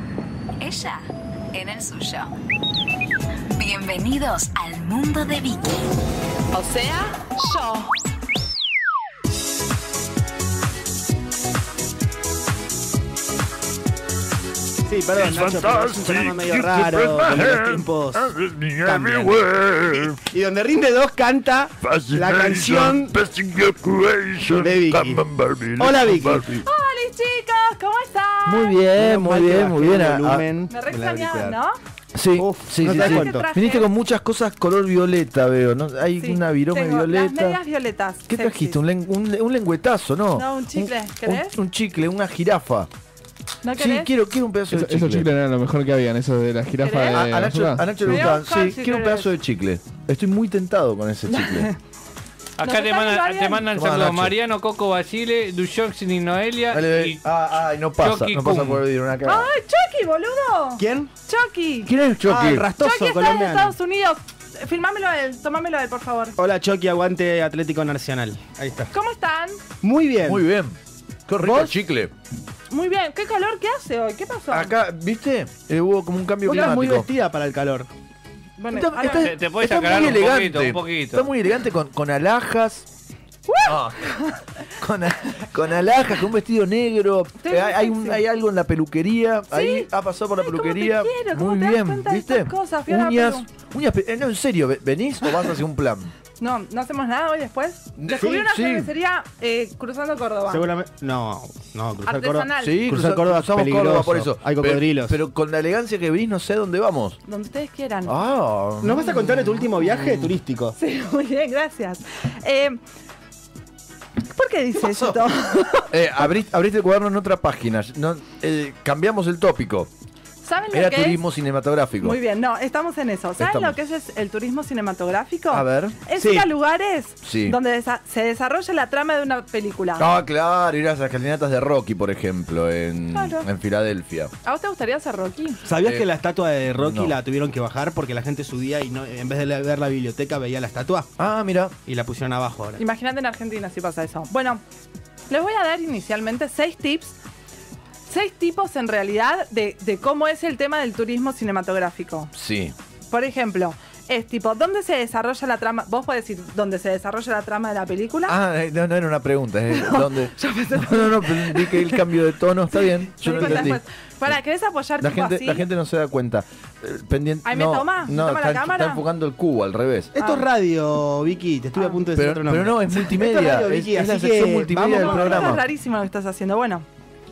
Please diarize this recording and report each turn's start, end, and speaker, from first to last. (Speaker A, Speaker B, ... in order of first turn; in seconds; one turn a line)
Speaker A: 0.6-2.3
Speaker A: 3.5-5.8
Speaker B: 6.5-7.9
Speaker C: 14.8-23.3
Speaker D: 15.3-20.1
Speaker D: 21.8-26.5
Speaker C: 24.5-26.6
Speaker B: 26.6-28.8
Speaker E: 28.4-30.5
Speaker C: 28.9-31.6
Speaker B: 30.7-31.8
Speaker E: 32.1-37.6
Speaker C: 32.4-33.5
Speaker B: 32.9-33.9
Speaker B: 36.2-38.8
Speaker E: 38.3-42.9
Speaker B: 40.3-41.5
Speaker B: 43.6-44.1
Speaker E: 43.8-45.3
Speaker D: 44.6-48.4
Speaker B: 46.8-47.5
Speaker E: 47.1-51.7
Speaker B: 48.0-49.3
Speaker B: 51.3-51.8
Speaker F: 52.6-57.2
Speaker B: 52.6-53.7
Speaker E: 53.7-54.4
Speaker E: 56.7-59.5
Speaker F: 58.0-58.8
Speaker B: 59.2-61.9
Speaker C: 60.8-61.1
Speaker E: 61.8-62.7
Speaker C: 62.2-63.7
Speaker B: 62.8-66.3
Speaker C: 66.4-68.9
Speaker B: 68.9-69.6
Speaker C: 69.8-70.4
Speaker E: 70.2-72.1
Speaker C: 71.4-71.7
Speaker B: 72.7-74.8
Speaker E: 74.5-77.1
Speaker C: 76.5-77.9
Speaker B: 76.5-76.8
Speaker B: 78.6-79.3
Speaker E: 78.7-82.9
Speaker F: 79.1-81.3
Speaker B: 83.5-84.4
Speaker E: 83.6-84.2
Speaker E: 84.7-96.1
Speaker B: 87.4-88.2
Speaker B: 89.5-89.9
Speaker B: 90.4-93.5
Speaker B: 96.4-100.7
Speaker E: 98.0-98.9
Speaker C: 98.1-98.4
Speaker C: 100.5-105.2
Speaker B: 102.0-102.9
Speaker E: 102.6-107.2
Speaker B: 107.2-108.2
Speaker E: 108.0-110.3
Speaker C: 108.8-110.7
Speaker B: 110.8-112.8
Speaker B: 114.2-115.9
Speaker E: 114.8-115.2
Speaker E: 115.9-119.9
Speaker B: 120.4-121.2
Speaker E: 120.7-122.2
Speaker B: 122.0-130.1
Speaker E: 123.4-123.8
Speaker E: 125.5-126.0
Speaker C: 126.2-126.5
Speaker E: 127.2-127.6
Speaker E: 130.0-134.3
Speaker B: 133.1-133.5
Speaker B: 134.4-135.6
Speaker C: 135.6-141.1
Speaker E: 135.8-136.1
Speaker E: 136.7-137.1
Speaker E: 141.2-141.7
Speaker C: 141.8-142.8
Speaker B: 142.8-144.6
Speaker B: 145.3-147.2
Speaker B: 148.1-152.3
Speaker E: 152.3-152.7
Speaker B: 153.1-158.3
Speaker E: 158.2-163.8
Speaker B: 159.7-162.1
Speaker B: 162.7-165.7
Speaker C: 163.3-163.7
Speaker E: 165.0-170.1
Speaker B: 167.4-169.0
Speaker C: 170.1-175.6
Speaker B: 170.2-170.5
Speaker E: 172.1-175.6
Speaker B: 174.9-176.8